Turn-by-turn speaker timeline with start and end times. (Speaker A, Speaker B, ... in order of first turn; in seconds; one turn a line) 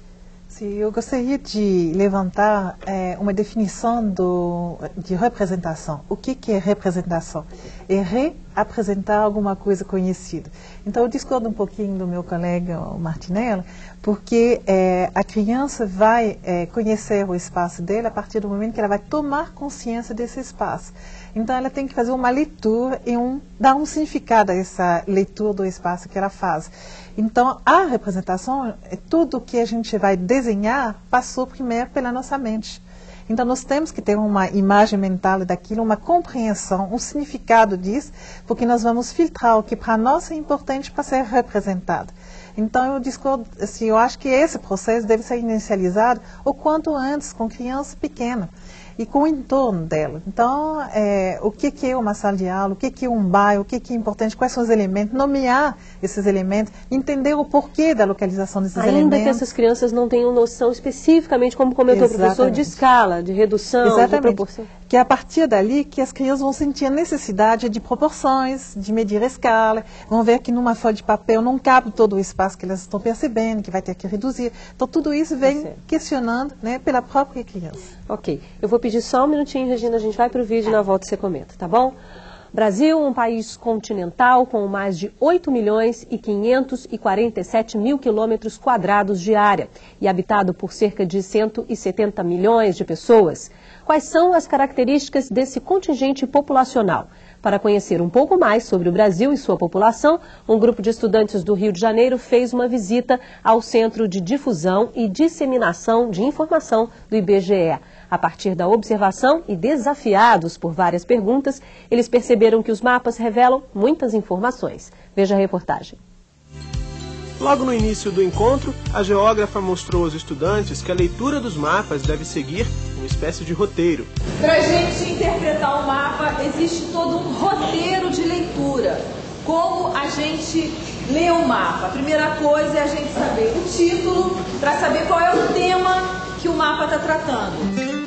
Speaker A: 0.5-59.4
Speaker B: 58.8-64.7
Speaker A: 61.9-62.8
Speaker A: 63.8-77.9
Speaker B: 75.4-75.8
Speaker B: 78.1-81.9
Speaker B: 82.5-116.0
Speaker C: 117.4-124.1
Speaker D: 124.4-137.7